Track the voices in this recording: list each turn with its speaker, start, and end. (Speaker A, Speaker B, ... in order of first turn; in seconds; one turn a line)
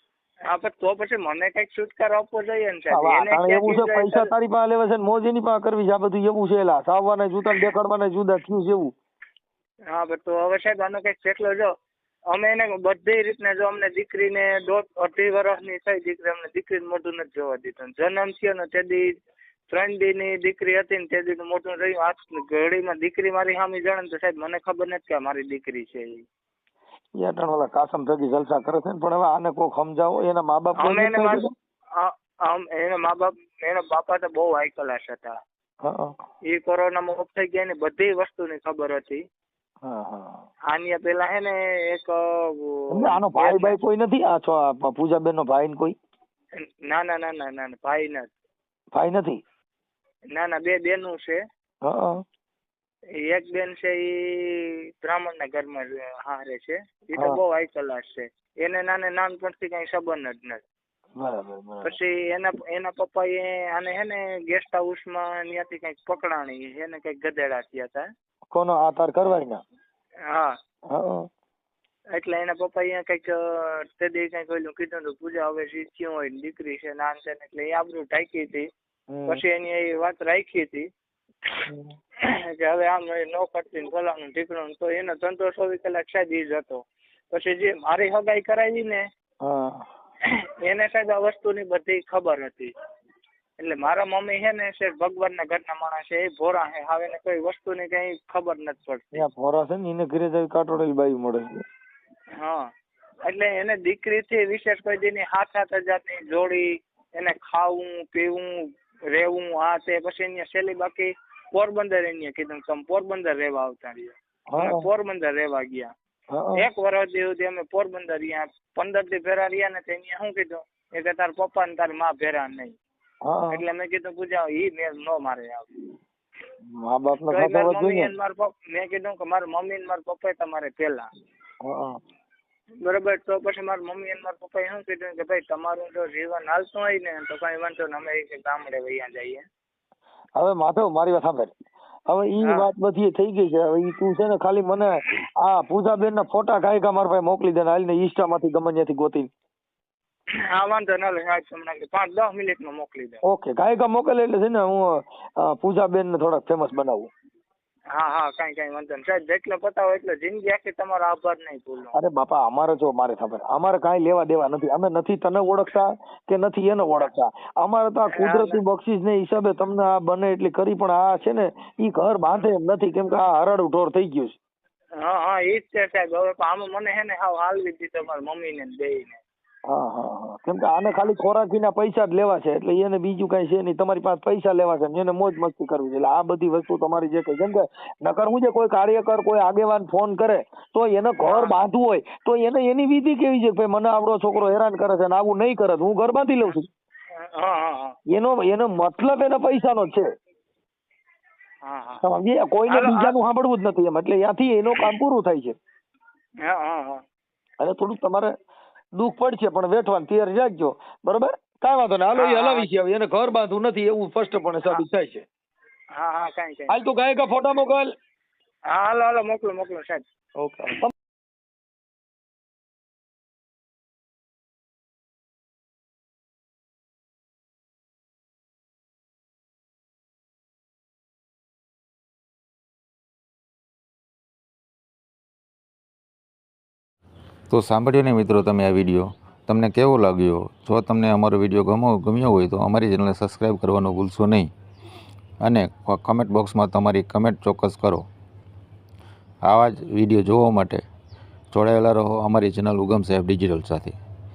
Speaker A: 0.5-4.3
Speaker B: 2.9-8.9
Speaker A: 9.9-11.7
Speaker A: 12.3-19.1
Speaker A: 19.7-26.2
Speaker B: 27.2-31.5
Speaker A: 30.8-35.4
Speaker B: 35.8-36.2
Speaker A: 36.5-39.2
Speaker B: 39.8-40.5
Speaker A: 40.7-43.8
Speaker B: 42.9-46.0
Speaker A: 46.6-48.3
Speaker B: 48.9-49.4
Speaker A: 50.3-51.4
Speaker B: 51.8-52.2
Speaker A: 53.2-60.6
Speaker B: 61.2-62.0
Speaker A: 61.8-68.1
Speaker B: 68.5-69.6
Speaker A: 70.3-70.6
Speaker B: 70.9-71.3
Speaker A: 72.1-78.7
Speaker B: 79.1-79.4
Speaker A: 79.3-80.9
Speaker B: 81.7-82.0
Speaker A: 82.2-89.1
Speaker B: 89.4-89.9
Speaker A: 90.3-92.7
Speaker A: 93.6-99.2
Speaker B: 99.1-101.6
Speaker A: 102.4-102.7
Speaker A: 103.2-115.9
Speaker B: 114.5-114.8
Speaker B: 116.3-116.7
Speaker A: 116.6-122.8
Speaker B: 123.2-123.6
Speaker A: 123.5-125.7
Speaker B: 126.6-128.1
Speaker A: 127.3-131.1
Speaker B: 131.6-132.0
Speaker A: 132.8-139.4
Speaker B: 140.4-141.5
Speaker B: 142.1-149.3
Speaker A: 142.4-142.7
Speaker A: 150.5-153.2
Speaker B: 153.2-157.1
Speaker A: 157.9-161.9
Speaker B: 161.9-174.4
Speaker A: 168.2-168.6
Speaker A: 175.0-179.2
Speaker B: 179.7-196.7
Speaker A: 191.2-191.5
Speaker A: 197.1-198.0
Speaker B: 198.1-200.1
Speaker A: 201.6-202.0
Speaker B: 202.0-205.6
Speaker A: 202.7-203.2
Speaker A: 206.4-207.0
Speaker B: 207.6-208.3
Speaker B: 208.9-215.2
Speaker A: 212.2-212.7
Speaker A: 215.9-216.8
Speaker B: 216.7-217.9
Speaker A: 218.7-220.0
Speaker B: 220.4-220.9
Speaker C: 237.5-244.5
Speaker C: 245.4-248.1
Speaker C: 249.4-250.8
Speaker C: 251.5-254.0